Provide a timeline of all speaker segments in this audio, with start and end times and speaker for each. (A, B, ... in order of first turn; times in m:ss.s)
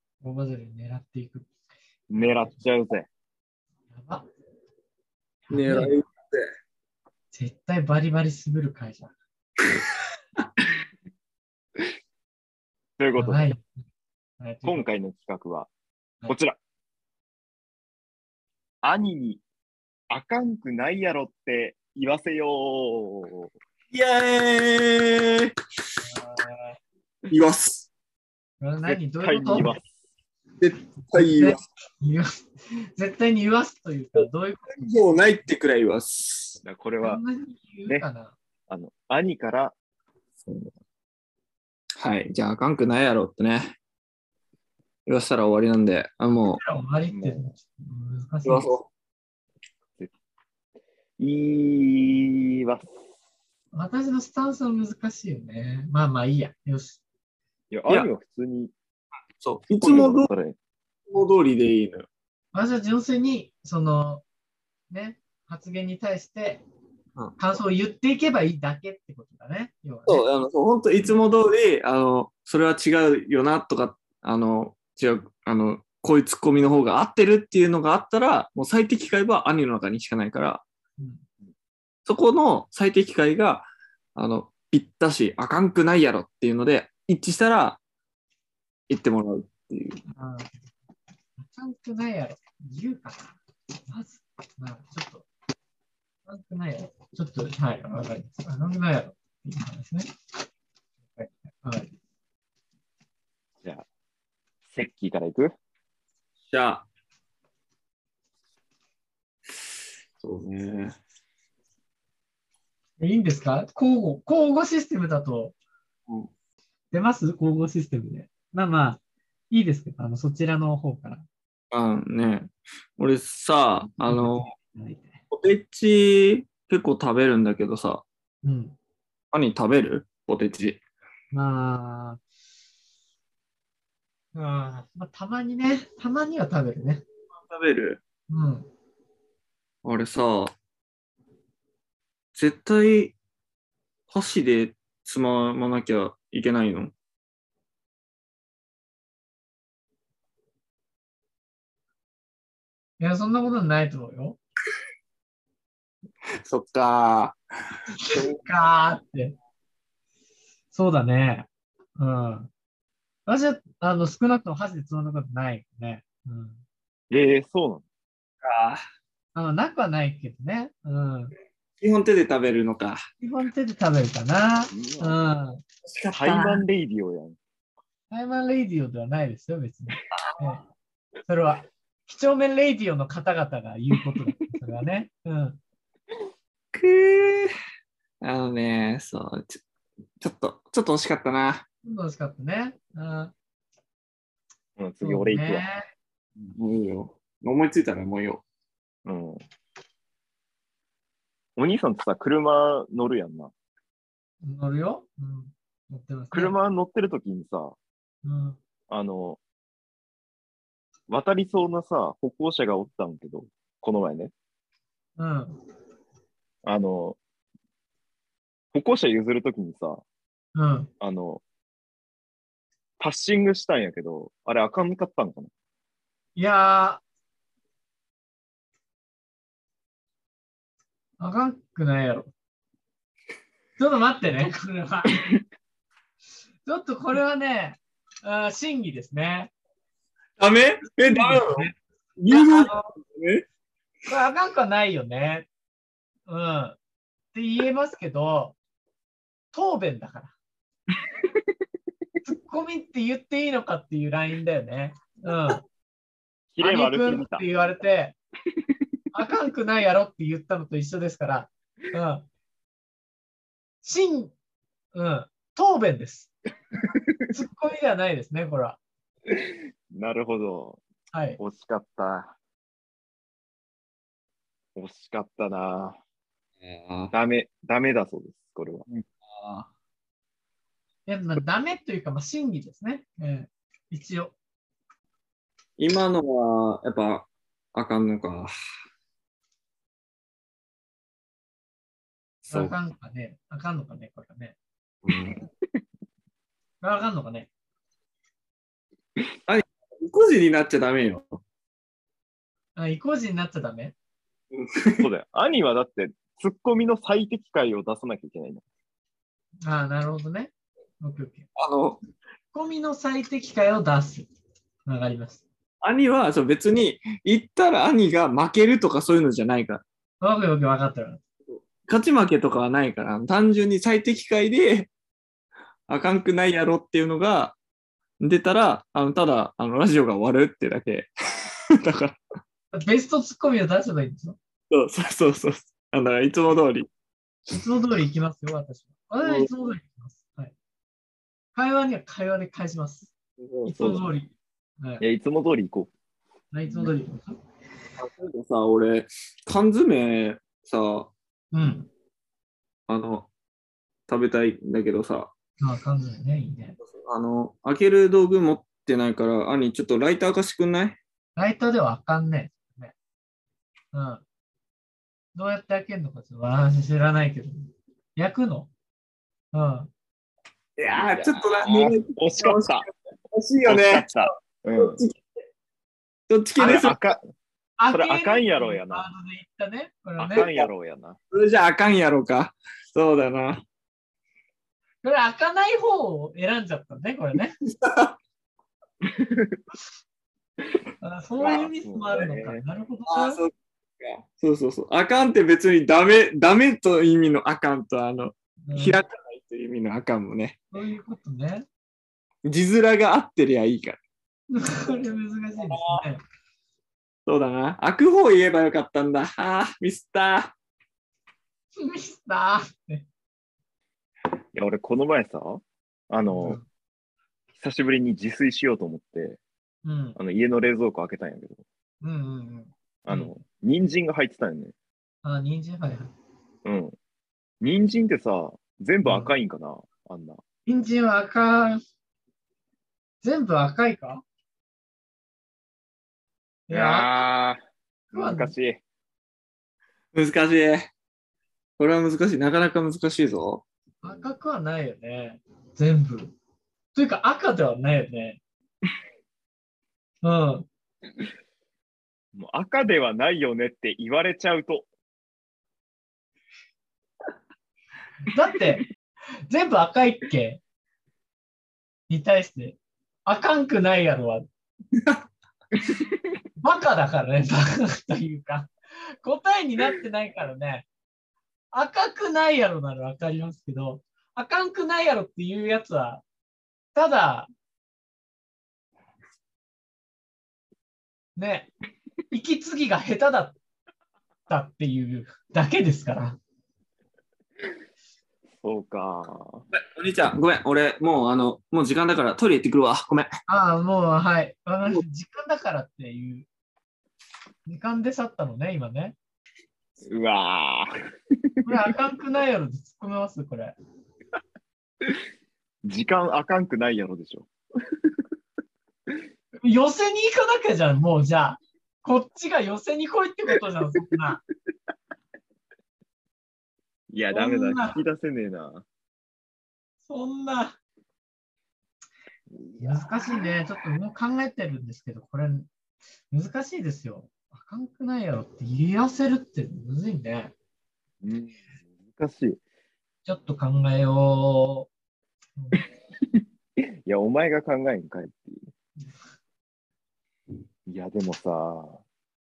0:00.2-0:01.5 A
0:02.1-0:03.1 B
0:02.2-0:02.6 A
0:03.9-0:04.2 A
0:05.5-0:06.0 A
0:05.5-0:06.4 C
0:07.3-0:09.1 A
0:09.6-0:09.8 C
0:13.0-0:13.5 B
0:13.2-0:13.6 A
0:14.4-0:14.9 A
0:14.6-0:15.7 B
0:16.3-0:16.6 B
0:18.8-0:19.4 B
0:20.1-0:23.5 B
0:23.9-0:25.5 C
0:26.0-0:26.8 A
0:27.3-0:27.9 C
0:28.6-0:29.8 A
0:28.8-0:29.8 B
0:30.6-0:31.6 C
0:31.1-0:34.8 A
0:34.2-0:36.6 C
0:36.6-0:37.2 B
0:37.0-0:38.4 A
0:38.7-0:39.7 B
0:40.4-0:40.7 C
0:42.0-0:43.7 C
0:45.0-0:46.6 C
0:46.5-0:48.7 A
0:47.1-0:47.5 B
0:48.4-0:48.9 C
0:51.2-0:52.9 B
0:53.7-0:57.0 A
0:57.7-0:58.7 B
0:59.4-1:00.3 C
0:59.7-1:00.6 B
1:01.1-1:02.1 C
1:02.5-1:04.2 A
1:04.9-1:06.6 A
1:07.4-1:10.2 A
1:10.1-1:20.6 C
1:21.0-1:21.2 A
1:22.0-1:27.8 C
1:28.9-1:30.0 C
1:30.1-1:30.5 A
1:31.4-1:35.2 A
1:36.3-1:40.1 A
1:41.2-1:41.9 A
1:44.7-1:45.5 B
1:46.5-1:46.8 C
1:50.2-1:50.9 C
1:53.0-1:55.5 A
1:56.9-2:01.2 A
2:01.7-2:04.5 C
2:04.0-2:05.2 A
2:05.3-2:08.0 C
2:08.4-2:08.8 A
2:09.3-2:10.8 C
2:11.3-2:12.2 A
2:14.3-2:17.0 A
2:17.5-2:18.0 C
2:18.3-2:18.7 A
2:19.8-2:20.5 C
2:22.3-2:23.1 C
2:24.1-2:26.9 C
2:33.0-2:34.4 A
2:36.4-2:38.4 C
2:37.9-2:39.3 A
2:40.7-2:42.5 A
2:43.3-2:46.6 A
2:47.1-2:47.8 B
2:48.4-2:48.8 C
2:49.3-2:51.3 A
2:51.8-2:53.0 C
2:53.2-2:55.6 A
2:54.7-2:55.2 B
2:55.8-2:56.6 C
2:56.1-2:57.4 B
2:58.1-3:00.6 A
3:00.1-3:00.4 C
3:01.3-3:05.6 A
3:06.7-3:07.5 C
3:08.2-3:09.6 C
3:10.2-3:11.6 C
3:11.8-3:13.3 A
3:14.8-3:15.6 B
3:15.0-3:15.8 A
3:16.5-3:18.4 C
3:19.0-3:19.4 B
3:21.6-3:23.5 B
3:24.4-3:26.5 A
3:26.3-3:27.8 B
3:28.2-3:28.6 A
3:28.9-3:29.4 B
3:31.1-3:34.3 B
3:35.2-3:35.6 A
3:36.6-3:37.2 B
3:38.7-3:40.0 B
3:40.5-3:40.9 A
3:41.0-3:41.4 B
3:43.0-3:45.5 B
3:46.4-3:47.0 A
3:51.2-3:52.3 A
3:53.8-3:55.2 A
3:56.6-3:59.5 A
4:00.4-4:01.7 C
4:01.1-4:01.7 A
4:02.2-4:03.4 C
4:02.3-4:02.8 A
4:04.1-4:05.5 A
4:06.3-4:06.8 A
4:07.3-4:08.6 A
4:09.5-4:10.3 A
4:12.2-4:15.6 A
4:16.5-4:17.5 B
4:16.6-4:18.1 A
4:19.1-4:22.3 A
4:23.8-4:24.3 A
4:24.9-4:26.3 A
4:26.9-4:27.3 B
4:27.3-4:28.8 A
4:29.3-4:30.8 B
4:31.1-4:31.4 A
4:31.4-4:32.4 B
4:34.8-4:36.0 B
4:36.6-4:37.1 C
4:37.1-4:38.9 B
4:38.9-4:39.7 C
4:41.1-4:44.4 A
4:45.8-4:48.5 C
4:52.4-4:52.7 C
4:52.5-4:54.6 A
4:55.0-4:55.4 C
4:56.8-4:57.5 A
4:59.5-5:01.4 C
5:02.8-5:03.9 A
5:04.5-5:05.1 C
5:05.0-5:08.6 B
5:09.6-5:11.5 A
5:11.6-5:12.0 C
5:12.5-5:14.3 A
5:14.8-5:15.4 A
5:15.8-5:19.8 C
5:20.2-5:21.2 A
5:21.8-5:24.9 C
5:25.9-5:27.6 C
5:28.2-5:32.2 C
5:32.7-5:34.4 A
5:34.7-5:36.9 C
5:37.5-5:40.5 A
5:39.2-5:39.5 C
5:41.5-5:43.1 A
5:43.4-5:43.8 C
5:43.6-5:45.0 A
5:43.8-5:44.0 B
5:45.0-5:45.9 B
5:46.5-5:47.4 A
5:48.0-5:51.1 C
5:51.5-5:51.9 A
5:52.9-5:53.3 C
5:54.1-5:55.3 C
5:55.6-5:56.8 A
5:56.8-6:01.0 C
6:01.4-6:02.9 A
6:03.9-6:04.2 A
6:05.3-6:08.7 A
6:09.5-6:09.9 A
6:10.8-6:14.2 C
6:11.0-6:12.9 B
6:13.6-6:15.0 B
6:14.8-6:15.2 C
6:16.3-6:17.0 C
6:16.6-6:17.2 B
6:17.8-6:20.5 A
6:17.9-6:19.1 B
6:20.2-6:21.2 B
6:20.3-6:20.7 C
6:21.3-6:23.6 C
6:25.0-6:27.6 A
6:27.6-6:28.1 C
6:29.1-6:29.6 B
6:31.0-6:33.4 A
6:31.4-6:32.6 B
6:33.1-6:40.6 C
6:38.6-6:39.0 A
6:40.7-6:41.6 A
6:42.4-6:44.0 C
6:44.5-6:46.2 A
6:44.6-6:45.2 B
6:45.6-6:46.0 C
6:47.2-6:50.5 C
6:51.7-6:53.1 A
6:54.5-6:56.6 B
6:56.3-6:56.6 A
6:57.6-6:59.4 B
6:59.8-7:00.2 A
7:00.2-7:01.6 B
7:02.0-7:03.3 A
7:03.0-7:04.7 B
7:05.2-7:06.1 A
7:06.6-7:06.9 B
7:07.6-7:10.4 B
7:09.0-7:09.3 A
7:10.7-7:11.8 A
7:13.2-7:14.2 A
7:16.7-7:17.2 A
7:16.7-7:17.6 B
7:18.1-7:18.5 A
7:18.1-7:18.8 B
7:20.1-7:20.9 C
7:21.8-7:23.6 C
7:24.0-7:26.3 A
7:26.9-7:28.4 A
7:30.2-7:30.7 A
7:32.3-7:34.8 B
7:38.3-7:38.8 A
7:39.5-7:40.6 A
7:42.1-7:44.4 A
7:44.9-7:45.2 C
7:45.8-7:46.2 B
7:46.6-7:50.8 A
7:51.7-7:56.2 A
7:56.9-7:57.5 A
8:01.4-8:01.7 A
8:02.3-8:03.6 A
8:04.5-8:06.4 A
8:08.6-8:09.6 B
8:09.7-8:13.3 C
8:13.5-8:16.4 A
8:17.6-8:19.2 A
8:20.0-8:20.9 B
8:21.6-8:23.7 A
8:25.8-8:27.5 B
8:29.6-8:34.4 A
8:37.1-8:38.8 B
8:37.3-8:38.0 A
8:40.0-8:40.7 A
8:42.5-8:43.8 B
8:42.8-8:45.7 A
8:46.3-8:50.5 A
8:51.2-8:52.6 B
8:53.2-8:54.9 A
8:55.6-8:55.8 A
8:57.0-8:58.7 B
9:00.9-9:02.0 B